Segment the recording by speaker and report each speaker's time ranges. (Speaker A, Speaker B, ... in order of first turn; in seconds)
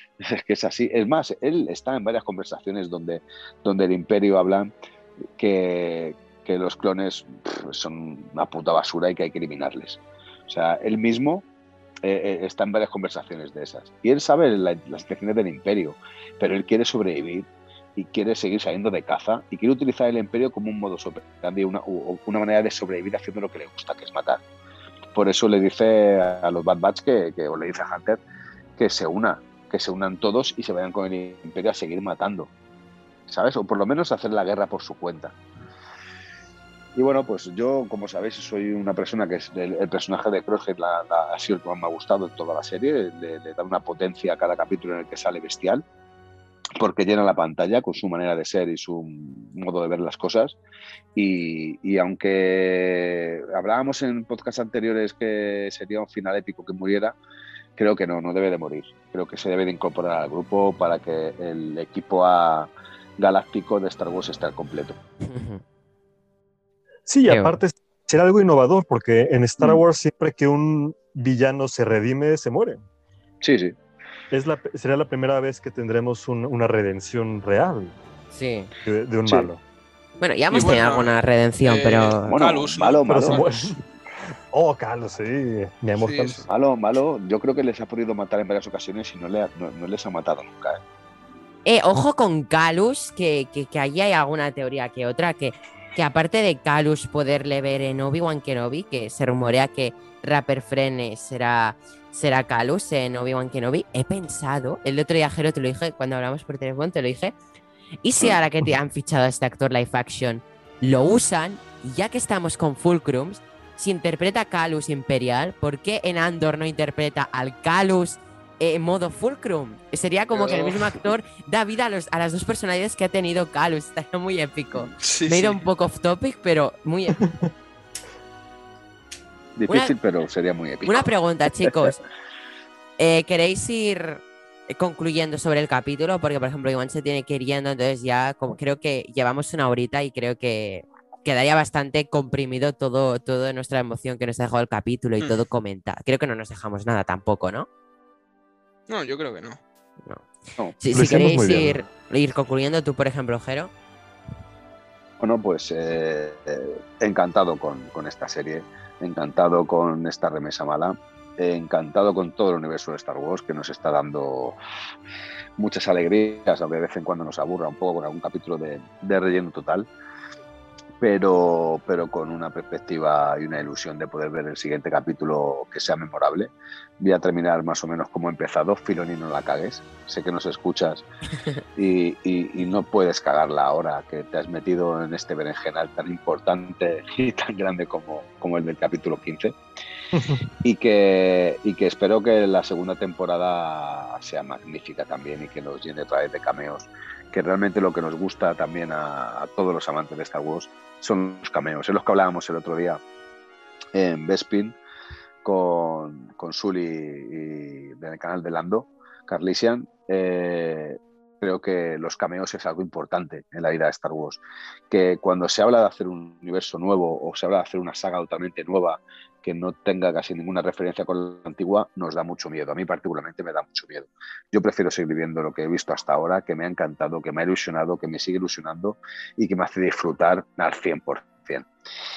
Speaker A: 0.2-4.7, 5.4-11.4, 12.0-24.4, 25.1-28.2, 28.8-32.5, 33.3-35.3, 36.9-45.8, 46.8-50.6, 51.1-57.1, 57.8-65.0, 73.4-73.8, 82.3-83.4, 86.5-90.8, 120.3-120.7, 129.6-131.1, 131.7-131.9, 155.2-164.6, 165.6-169.9, 171.0-181.1, 181.8-189.6, 190.6-203.0, 203.9-204.8, 205.4-231.7
Speaker B: 65.2-65.6, 67.3-67.6, 78.3-78.7, 80.2-82.4, 91.6-107.3, 108.0-127.2, 129.7-129.9, 130.8-132.0, 133.0-147.7, 150.8-153.7
Speaker C: 67.0-72.8, 74.3-78.0, 78.8-79.6, 83.1-83.8, 84.5-86.4, 150.9-151.8, 190.1-190.4
Speaker D: 80.5-83.7, 86.0-86.5, 125.0-125.6, 148.9-149.6